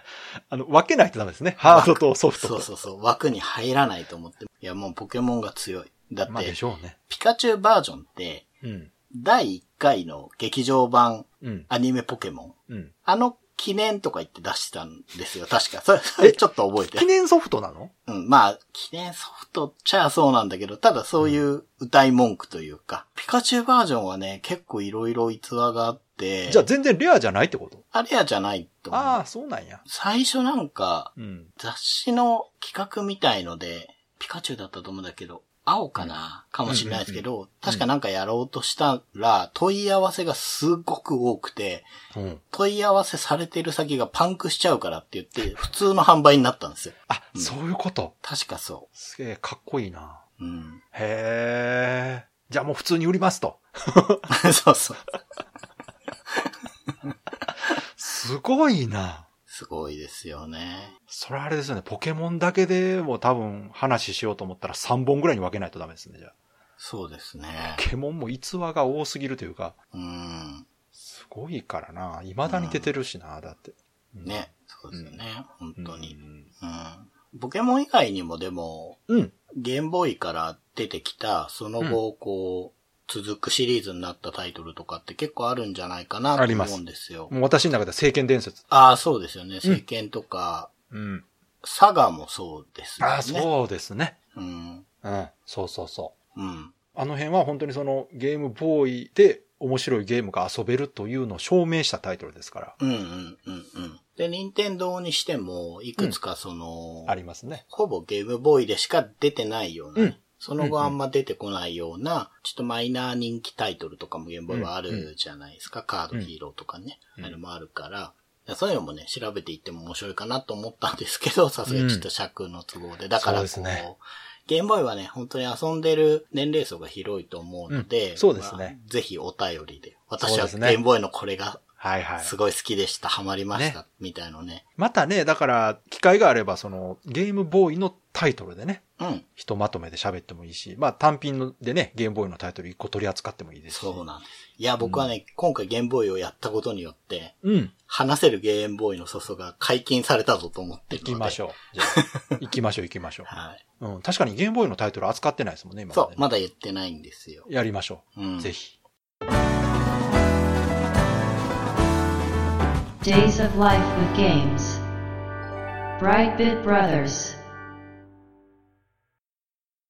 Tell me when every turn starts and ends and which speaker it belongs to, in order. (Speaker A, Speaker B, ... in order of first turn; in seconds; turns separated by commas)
Speaker A: 0.3-2.7, Speaker B: 1.6-6.5, Speaker A: 6.3-7.0, Speaker B: 7.1-8.5, Speaker A: 8.6-8.9, Speaker B: 9.1-17.1, Speaker A: 11.4-11.7, Speaker A: 12.7-12.9, Speaker A: 16.9-17.9, Speaker B: 18.1-26.7, Speaker A: 26.5-27.8, Speaker B: 27.9-29.2, Speaker A: 28.9-29.8, Speaker B: 29.9-41.9, Speaker A: 31.2-31.5, Speaker A: 36.7-37.8, Speaker A: 42.1-42.4, Speaker B: 42.5-47.5, Speaker A: 47.1-48.1, Speaker B: 48.2-48.9, Speaker A: 48.9-50.2, Speaker B: 50.4-50.8, Speaker A: 50.9-54.3, Speaker B: 54.3-55.0, Speaker A: 58.0-59.3, Speaker B: 59.5-60.9, Speaker A: 61.1-66.3, Speaker B: 66.8-67.8, Speaker A: 67.6-69.7, Speaker B: 69.9-70.7, Speaker A: 70.9-75.2, Speaker B: 72.4-72.9, Speaker B: 74.2-87.3, Speaker A: 75.8-76.5, Speaker A: 86.3-86.8, Speaker A: 87.3-88.6, Speaker B: 88.7-90.7, Speaker A: 90.9-91.2, Speaker B: 91.6-93.5, Speaker A: 93.0-94.2, Speaker B: 94.3-94.8, Speaker A: 95.0-96.1, Speaker B: 96.3-96.8, Speaker A: 96.9-102.8, Speaker B: 102.8-107.2, Speaker A: 107.1-107.6, Speaker B: 107.7-131.6, Speaker A: 110.0-110.9, Speaker A: 114.5-115.1, Speaker A: 121.7-122.0, Speaker A: 123.2-123.9, Speaker A: 127.7-128.8, Speaker A: 130.2-130.8, Speaker A: 131.8-132.3, Speaker B: 132.2-134.6, Speaker A: 133.5-133.8, Speaker A: 134.8-138.8, Speaker B: 139.0-139.2, Speaker A: 139.4-144.0, Speaker B: 143.7-152.4, Speaker A: 144.8-145.1, Speaker A: 147.4-147.7, Speaker A: 151.0-156.2, Speaker B: 153.3-153.6, Speaker B: 155.9-157.5, Speaker A: 157.5-158.7, Speaker B: 158.1-158.5, Speaker C: 163.0-164.8, Speaker C: 166.0-167.4